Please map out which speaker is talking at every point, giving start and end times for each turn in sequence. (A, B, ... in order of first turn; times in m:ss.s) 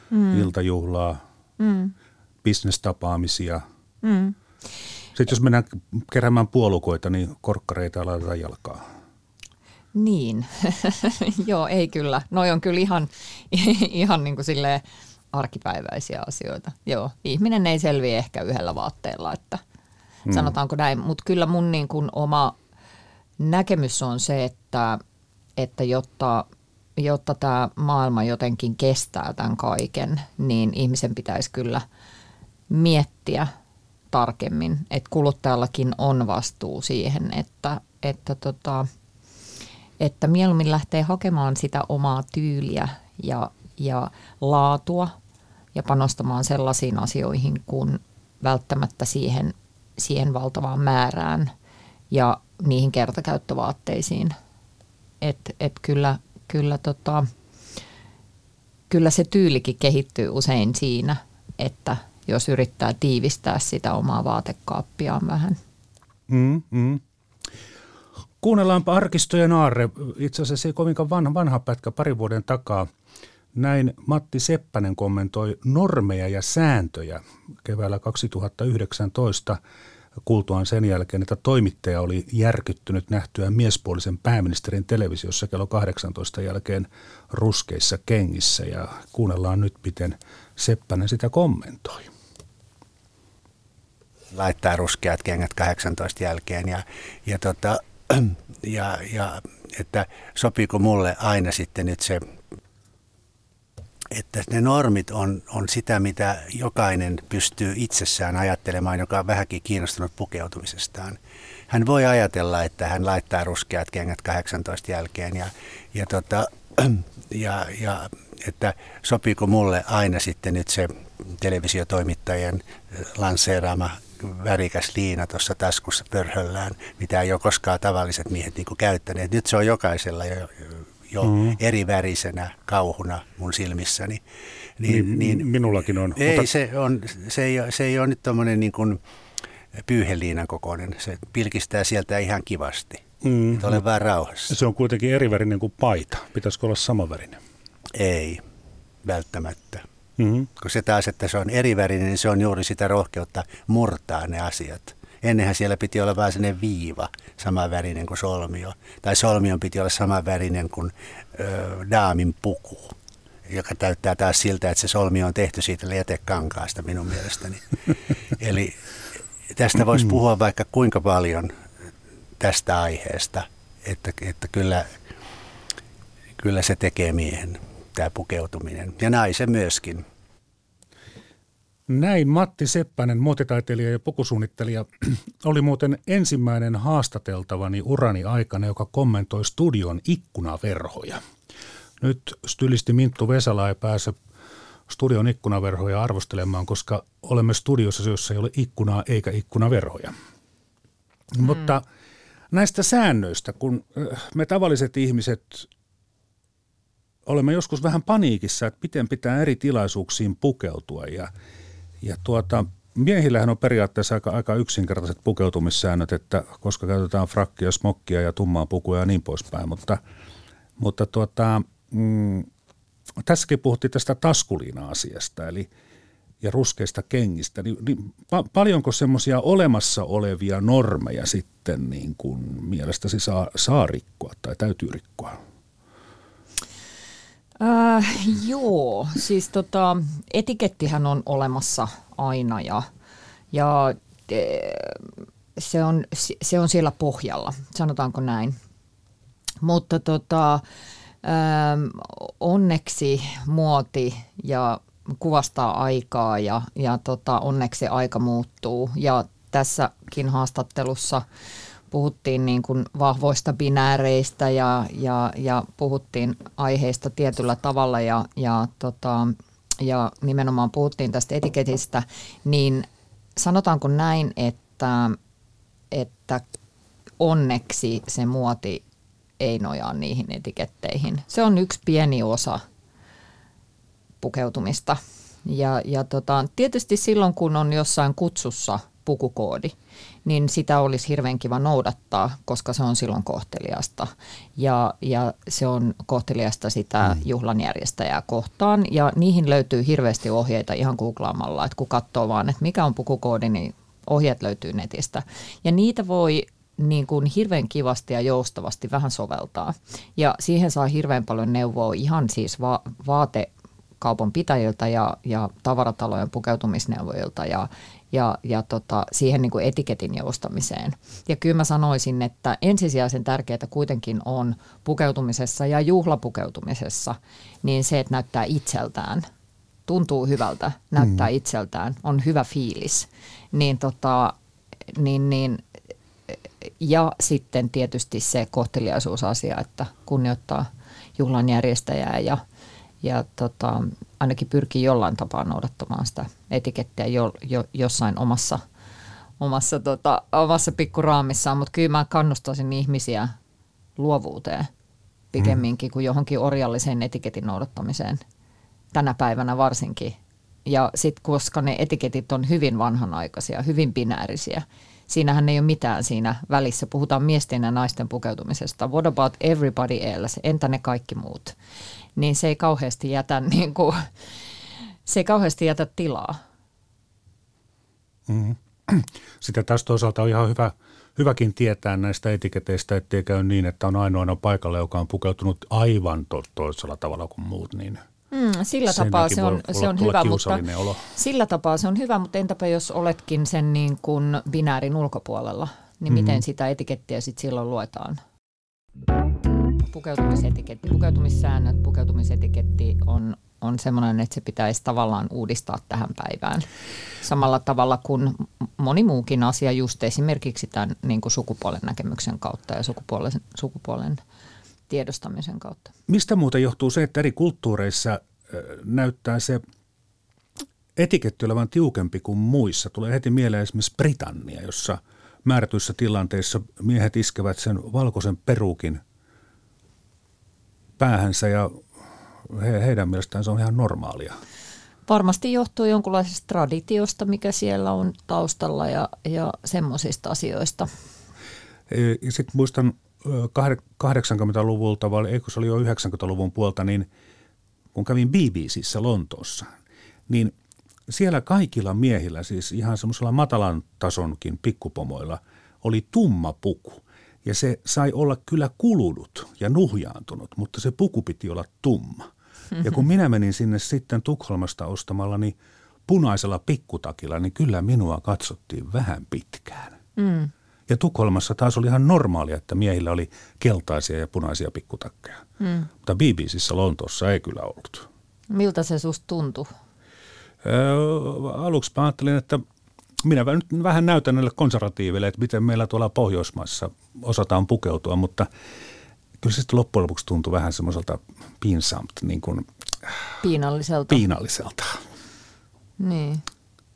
0:00.1-0:00.5 A
0:00.3-0:01.2 B
0:01.6-0:01.9 A
0:02.4-0:03.6 B
0:04.0-0:04.4 A
0:05.2-0:08.8 B
0:10.0-0:19.6 A
0:20.3-0:20.5 B
0:20.3-0:22.6 A
0:23.4-0:25.0 A
0:25.6-0:26.5 A
0:27.0-0:31.8 A
0:32.7-0:33.5 A
0:34.1-0:38.9 A
0:40.0-0:45.1 A
0:45.8-0:51.5 A
0:52.1-0:54.4 A
0:55.2-0:57.3 A
0:58.9-1:05.6 A
1:06.3-1:07.0 B
1:08.4-1:12.9 B
1:13.5-1:19.6 B
1:20.2-1:32.1 B
1:34.3-1:42.2 C
1:44.1-1:51.2 C
1:51.7-2:14.2 C
2:11.2-2:11.6 B
2:14.8-2:15.5 C
2:14.9-2:16.5 B
2:16.1-2:19.0 C
2:19.8-2:24.6 C
2:23.2-2:23.8 B
2:24.5-2:27.4 B
2:27.9-2:28.4 C
2:29.0-2:29.8 C
2:30.2-2:30.5 B
2:30.6-2:42.9 C
2:43.5-2:48.8 C
2:49.5-2:51.5 C
2:52.4-2:55.0 C
2:56.4-3:00.1 C
3:01.9-3:11.2 B
3:12.0-3:14.2 B
3:14.9-3:20.1 B
3:21.3-3:21.8 B
3:22.5-3:25.7 B
3:27.3-3:31.3 B
3:32.0-3:40.0 B
3:40.8-3:42.5 B
3:43.2-3:45.7 B
3:46.4-3:55.4 B
3:57.6-4:02.9 A
4:03.5-4:08.6 A
4:09.6-4:10.6 A
4:11.2-4:21.2 A
4:21.9-4:35.2 A
4:35.9-4:36.4 A
4:37.2-4:38.8 A
4:39.4-4:42.6 A
4:44.2-5:13.5 A
5:14.0-5:29.3 A
5:29.9-5:34.4 A
5:34.9-5:35.6 A
5:36.7-5:42.4 A
5:43.0-5:48.6 A
5:49.4-5:53.3 A
5:54.0-5:54.7 A
5:55.3-5:58.2 A
5:58.9-6:11.6 A
6:12.2-6:14.1 A
6:15.1-6:16.4 A
6:18.3-6:28.0 B
6:28.3-6:38.2 A
6:28.9-6:31.1 B
6:36.1-6:36.4 B
6:39.9-6:46.7 A
6:47.2-6:54.2 A
6:54.9-6:55.9 A
6:56.1-6:59.6 B
7:01.0-7:09.0 B
7:11.0-7:11.8 B
7:12.5-7:14.4 B
7:15.1-7:20.9 A
7:21.9-7:27.1 B
7:27.9-7:29.7 B
7:30.3-7:30.5 B
7:31.1-7:42.3 B
7:42.8-7:45.6 B
7:46.1-7:50.0 B
7:50.2-7:50.5 A
7:50.9-7:55.4 B
7:55.6-7:55.9 A
7:56.0-7:58.1 B
7:58.5-7:59.7 A
8:00.6-8:02.6 B
8:03.2-8:08.5 B
8:09.4-8:13.2 B
8:13.4-8:14.2 A
8:14.1-8:15.0 B
8:16.0-8:16.4 A